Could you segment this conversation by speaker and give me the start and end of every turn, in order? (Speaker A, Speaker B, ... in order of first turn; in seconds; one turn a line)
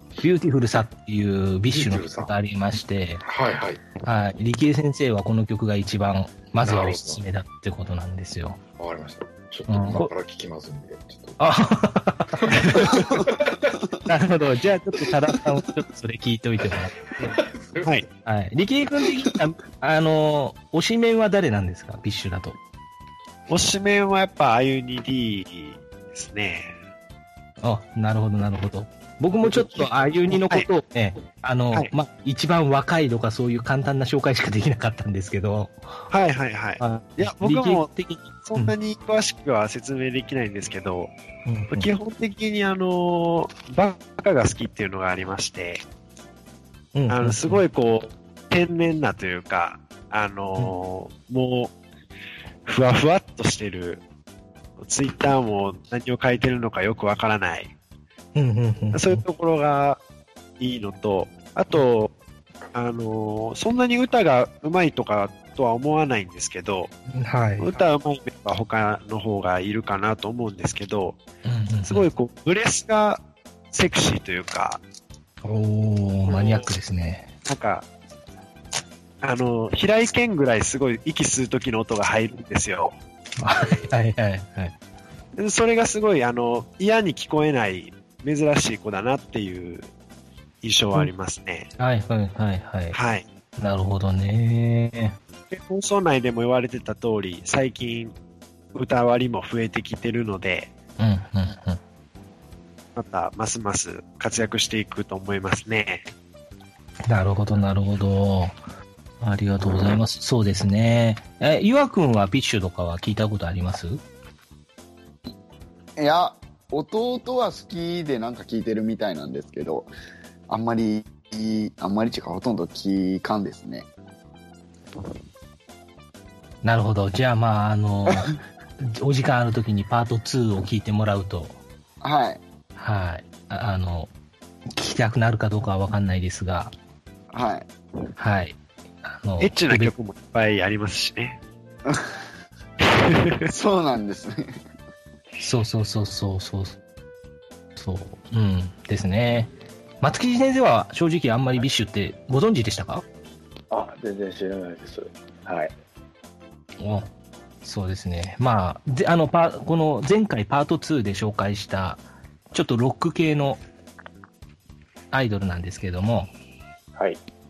Speaker A: 0.2-3.2
Speaker B: 1.7-2.3
Speaker B: 3.2-3.8
Speaker A: 4.0-8.6
Speaker B: 6.6-7.2
Speaker B: 8.8-11.4
Speaker A: 9.7-10.1
Speaker A: 11.4-13.3
Speaker B: 12.4-14.0
Speaker A: 14.0-17.4
Speaker B: 17.2-18.0
Speaker A: 18.2-22.6
Speaker C: 23.5-26.7
Speaker A: 27.6-36.1
Speaker C: 29.4-30.7
Speaker C: 36.1-41.1
Speaker A: 36.8-38.7
Speaker A: 41.5-41.9
Speaker C: 41.7-45.8
Speaker A: 46.9-47.6
Speaker C: 47.1-51.7
Speaker C: 52.6-54.0
Speaker C: 54.8-57.7
Speaker A: 58.3-59.2
Speaker C: 58.9-60.0
Speaker C: 60.6-62.1
Speaker C: 62.7-66.9
Speaker A: 67.1-67.8
Speaker C: 67.6-71.2
Speaker A: 71.4-72.1
Speaker C: 71.9-74.8
Speaker A: 75.4-77.3
Speaker C: 76.2-76.7
Speaker C: 77.4-77.8
Speaker C: 79.2-83.0
Speaker A: 83.4-84.7
Speaker C: 85.3-89.9
Speaker C: 90.6-91.7
Speaker A: 91.8-93.0
Speaker C: 92.9-93.2
Speaker A: 93.6-95.2
Speaker C: 95.5-98.1
Speaker C: 98.7-100.7
Speaker A: 101.0-101.8
Speaker C: 103.0-106.0
Speaker A: 107.1-108.5
Speaker A: 109.2-114.0
Speaker D: 116.0-119.9
Speaker D: 120.5-123.9
Speaker A: 126.6-131.6
Speaker D: 132.0-132.4
Speaker A: 132.8-134.1
Speaker A: 134.7-136.7
Speaker D: 137.3-137.7
Speaker A: 138.2-139.9
Speaker C: 139.4-141.4
Speaker C: 142.8-143.5
Speaker D: 143.4-144.4
Speaker A: 145.4-146.8
Speaker A: 147.8-153.0
Speaker E: 153.7-155.7
Speaker A: 156.8-157.1
Speaker A: 157.6-163.6
Speaker A: 165.1-166.3
Speaker E: 166.9-167.2